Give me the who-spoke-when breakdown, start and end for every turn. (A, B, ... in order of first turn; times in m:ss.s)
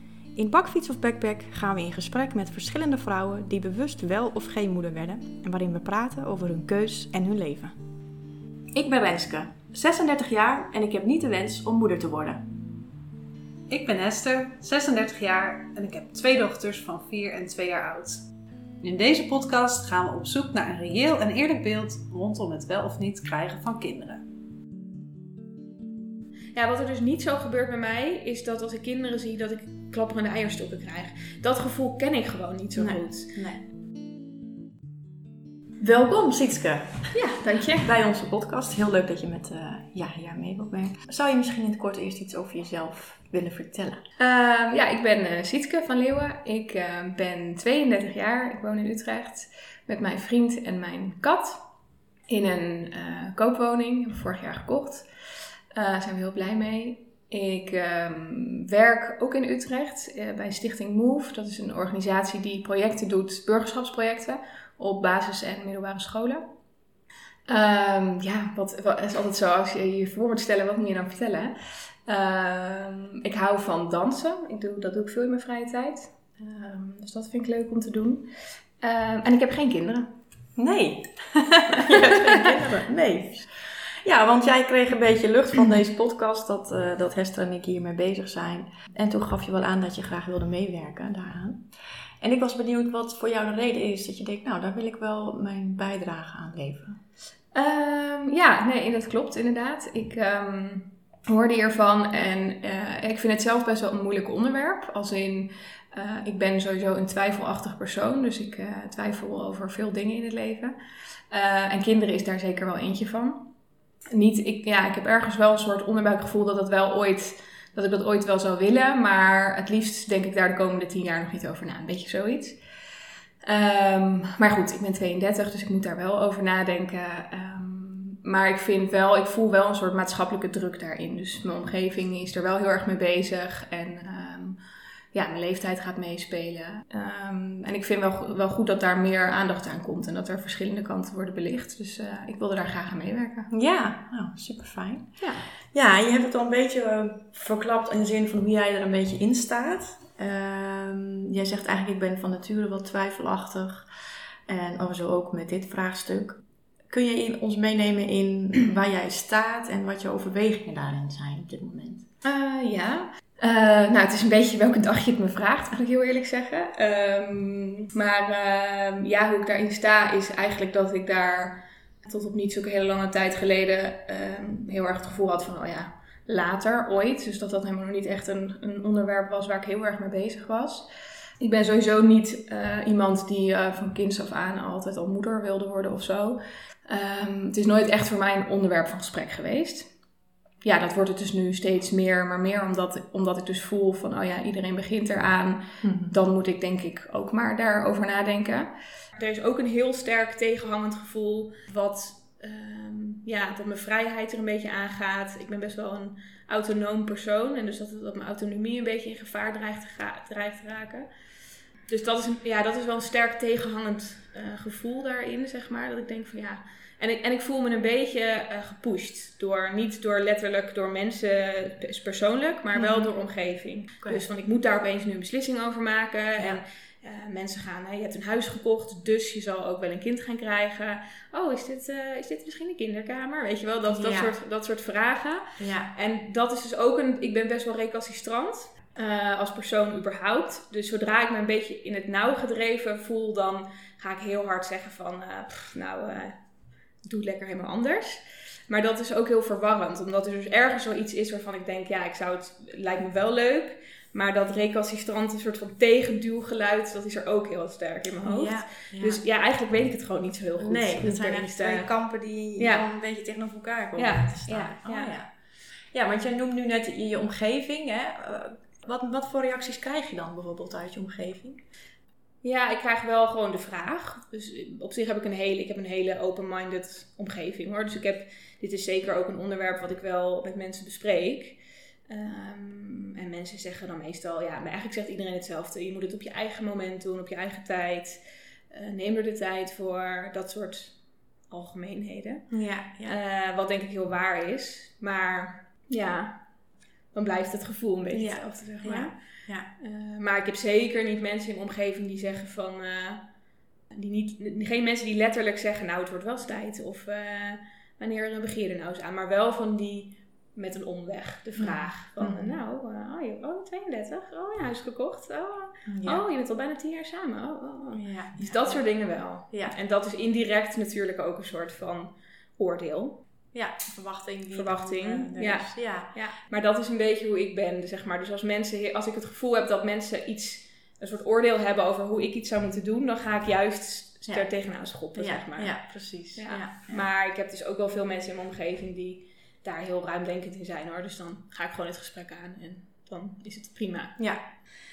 0:00.3-0:07.8 A
0:08.7-0:12.4 A
0:13.7-0:18.3 B
0:18.8-0:24.2 B
0:26.5-0:33.3 C
0:32.8-0:33.6 A
0:35.8-0:44.0 A
0:37.1-0:37.9 C
0:44.2-0:51.6 C
0:52.3-0:55.1 C
0:55.7-1:06.5 C
1:07.5-1:20.1 C
1:20.6-1:31.7 A
1:21.8-1:22.4 C
1:32.2-1:37.0 A
1:37.5-1:50.7 C
1:51.3-1:53.5 C
1:54.1-2:02.6 C
2:03.4-2:14.6 C
2:15.1-2:23.5 C
2:23.5-2:33.9 A
2:25.2-2:25.5 C
2:34.5-2:42.1 A
2:42.2-3:00.9 C
3:01.4-3:09.9 C
3:10.6-3:31.0 C
3:15.8-3:16.1 A
3:31.9-4:06.4 C
3:42.7-3:43.1 A
3:53.9-3:54.3 A
3:55.6-3:55.9 A
4:07.0-4:21.9 C
4:18.2-4:19.2 A
4:20.6-4:25.3 A
4:22.6-4:22.8 C
4:24.0-4:25.1 C
4:25.9-4:31.6 A
4:32.4-4:48.2 C
4:48.7-4:52.5 C
4:52.5-4:53.2 A
4:53.0-4:56.5 C
4:57.1-5:03.3 C
4:58.1-4:59.7 A
5:03.9-5:23.2 C
5:11.6-5:12.6 A
5:15.9-5:16.2 A
5:17.9-5:18.9 A
5:19.5-5:19.8 A
5:23.5-5:26.1 A
5:24.5-5:35.8 C
5:35.1-5:37.0 A
5:36.3-5:44.2 C
5:44.2-5:44.4 A